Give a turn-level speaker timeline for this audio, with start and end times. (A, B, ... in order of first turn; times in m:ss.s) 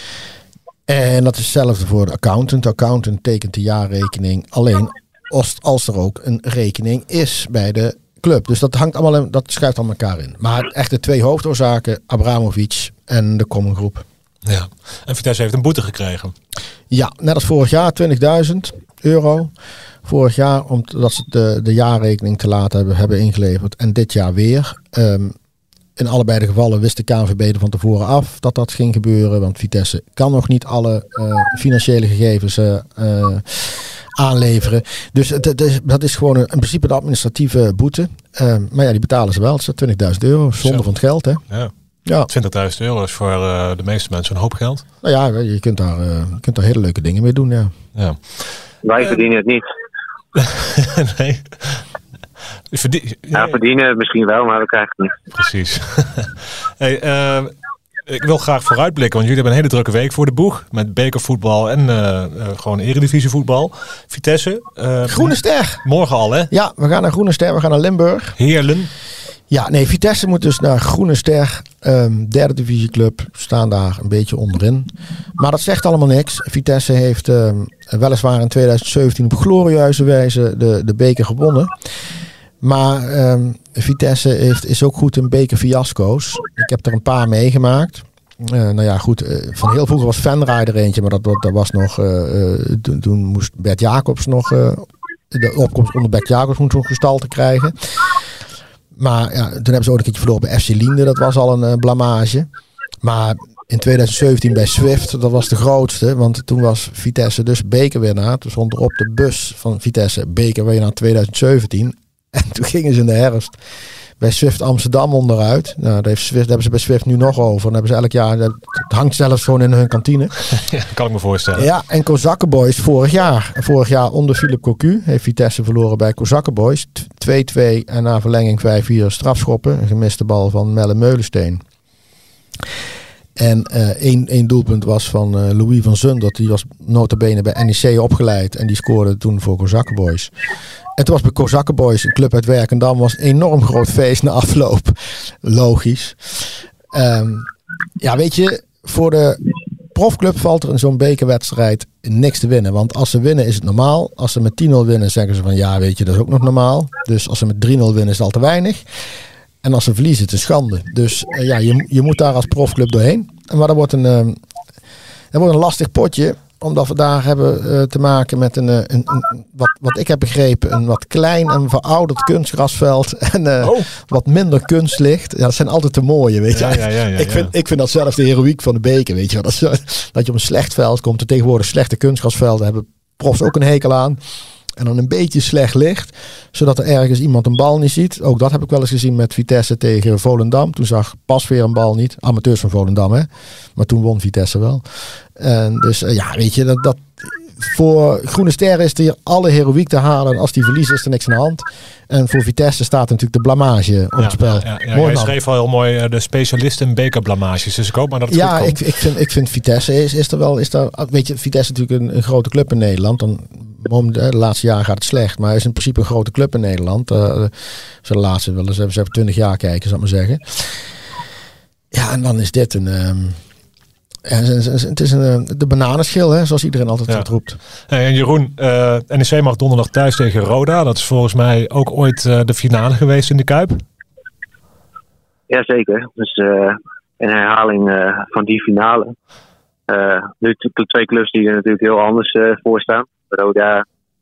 0:00.9-0:14.0 A
0:14.4-0:16.3 B
0:16.9-0:19.5 A
0:20.0-0:25.3 A
0:26.0-0:41.4 A
0:42.3-0:44.8 B
0:45.0-0:47.7 A
0:48.0-0:48.5 B
0:48.8-0:49.6 C
0:50.3-0:51.8 B
0:52.7-0:53.6 B
0:53.3-0:55.1 C
0:55.3-0:57.5 B
0:58.0-1:06.5 B
1:05.0-1:05.8 A
1:06.5-1:08.4 A
1:08.4-1:08.9 B
1:09.5-1:21.9 A
1:22.6-1:38.2 A
1:39.0-1:42.5 A
1:43.0-1:53.6 A
1:54.2-2:00.4 A
2:00.5-2:01.6 B
2:01.5-2:11.6 A
2:13.4-2:20.3 A
2:21.0-2:29.4 A
2:29.9-2:38.8 A
2:39.6-2:44.4 A
2:45.3-3:04.2 A
2:56.5-2:57.5 B
3:04.8-3:25.3 A
3:24.2-3:28.8 B
3:28.3-3:40.9 A
3:41.9-3:43.4 A
3:44.2-3:47.6 A
3:47.9-3:53.8 B
3:55.5-3:59.1 C
3:59.9-4:03.8 C